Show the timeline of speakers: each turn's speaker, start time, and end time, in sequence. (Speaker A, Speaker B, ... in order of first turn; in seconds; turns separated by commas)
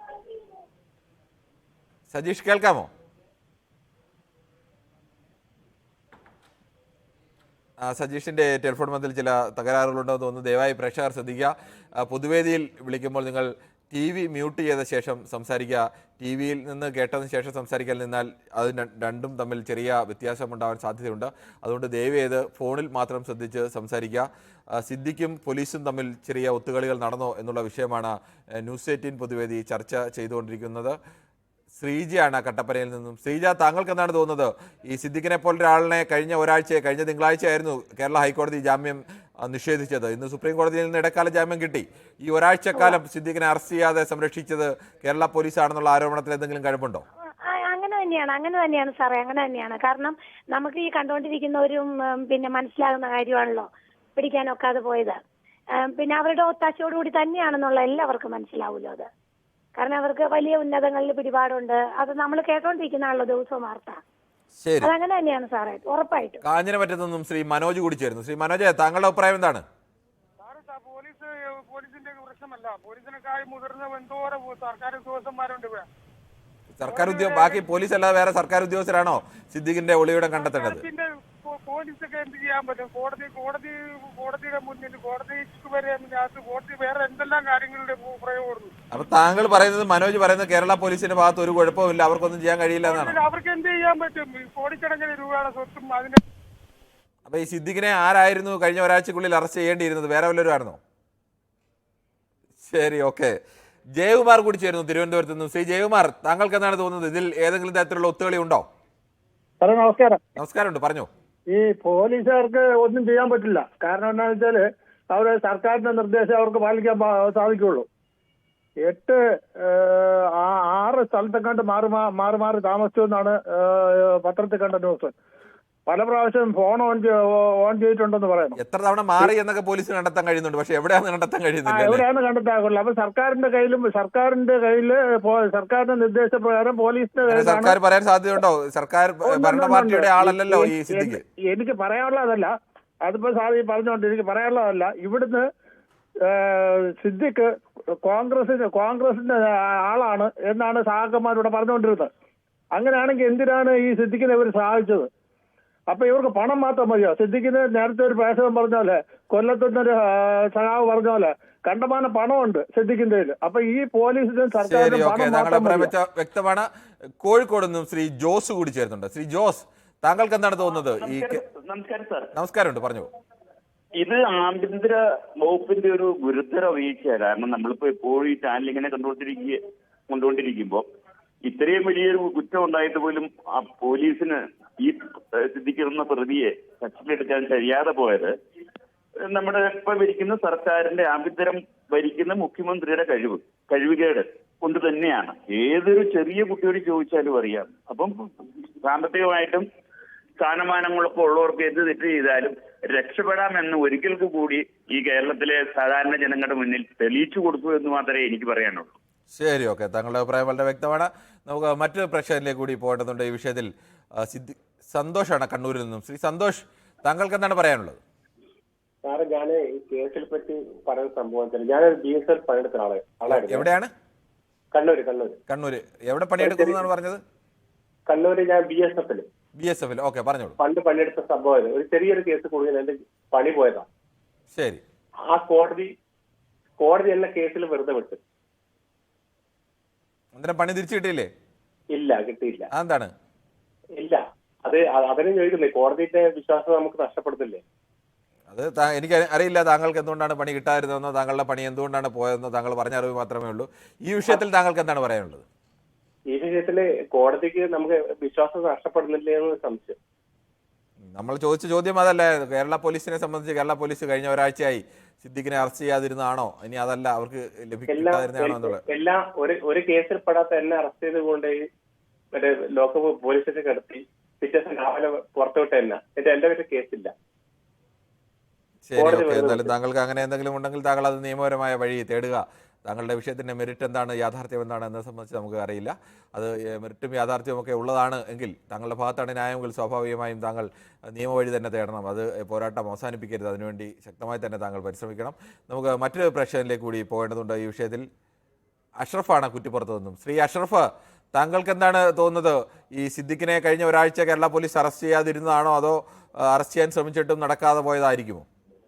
Speaker A: 2.1-2.9, Speaker A: 7.8-24.2, Speaker A: 24.8-31.0, Speaker A: 31.8-47.0, Speaker B: 47.6-55.2, Speaker B: 56.0-59.1, Speaker B: 59.8-64.0, Speaker A: 64.6-64.9, Speaker B: 64.8-66.4, Speaker A: 66.4-69.6, Speaker C: 70.4-75.9, Speaker A: 76.8-80.8, Speaker C: 76.8-77.7, Speaker C: 80.3-88.7, Speaker A: 88.9-93.2, Speaker C: 92.8-96.2, Speaker A: 97.3-100.8, Speaker A: 102.6-103.4, Speaker A: 104.0-108.7, Speaker D: 109.6-110.2, Speaker A: 110.4-111.1, Speaker D: 111.5-114.6, Speaker D: 115.1-117.8, Speaker D: 118.9-119.1, Speaker D: 120.4-123.4, Speaker D: 124.2-125.1, Speaker D: 125.9-128.5, Speaker A: 128.6-132.1, Speaker D: 131.7-137.7, Speaker A: 137.3-141.2, Speaker D: 139.3-142.5, Speaker D: 143.1-145.4, Speaker D: 147.0-147.4, Speaker D: 148.1-152.1, Speaker D: 152.8-155.1, Speaker D: 155.9-160.0, Speaker D: 160.5-165.9, Speaker A: 164.6-166.7, Speaker A: 167.2-171.4, Speaker E: 170.9-172.3, Speaker A: 172.3-173.1, Speaker E: 174.0-180.8, Speaker E: 181.4-188.3, Speaker E: 189.3-198.2, Speaker E: 198.8-199.7, Speaker E: 200.4-208.9, Speaker A: 209.3-218.0, Speaker F: 219.1-223.7, Speaker A: 223.3-223.9, Speaker F: 224.7-225.4, Speaker A: 225.5-227.2, Speaker F: 226.4-226.8, Speaker F: 228.1-229.3, Speaker A: 229.6-230.6, Speaker F: 230.6-233.9, Speaker A: 234.6-234.8, Speaker F: 235.3-235.9, Speaker F: 236.8-238.2, Speaker A: 240.3-241.3, Speaker F: 241.9-242.7, Speaker A: 242.7-243.1, Speaker F: 244.0-247.6, Speaker A: 248.5-255.4, Speaker F: 256.3-260.0, Speaker A: 261.1-268.9, Speaker F: 267.9-271.6, Speaker F: 272.3-277.1, Speaker A: 278.9-298.1, Speaker F: 279.0-279.7, Speaker A: 299.0-308.5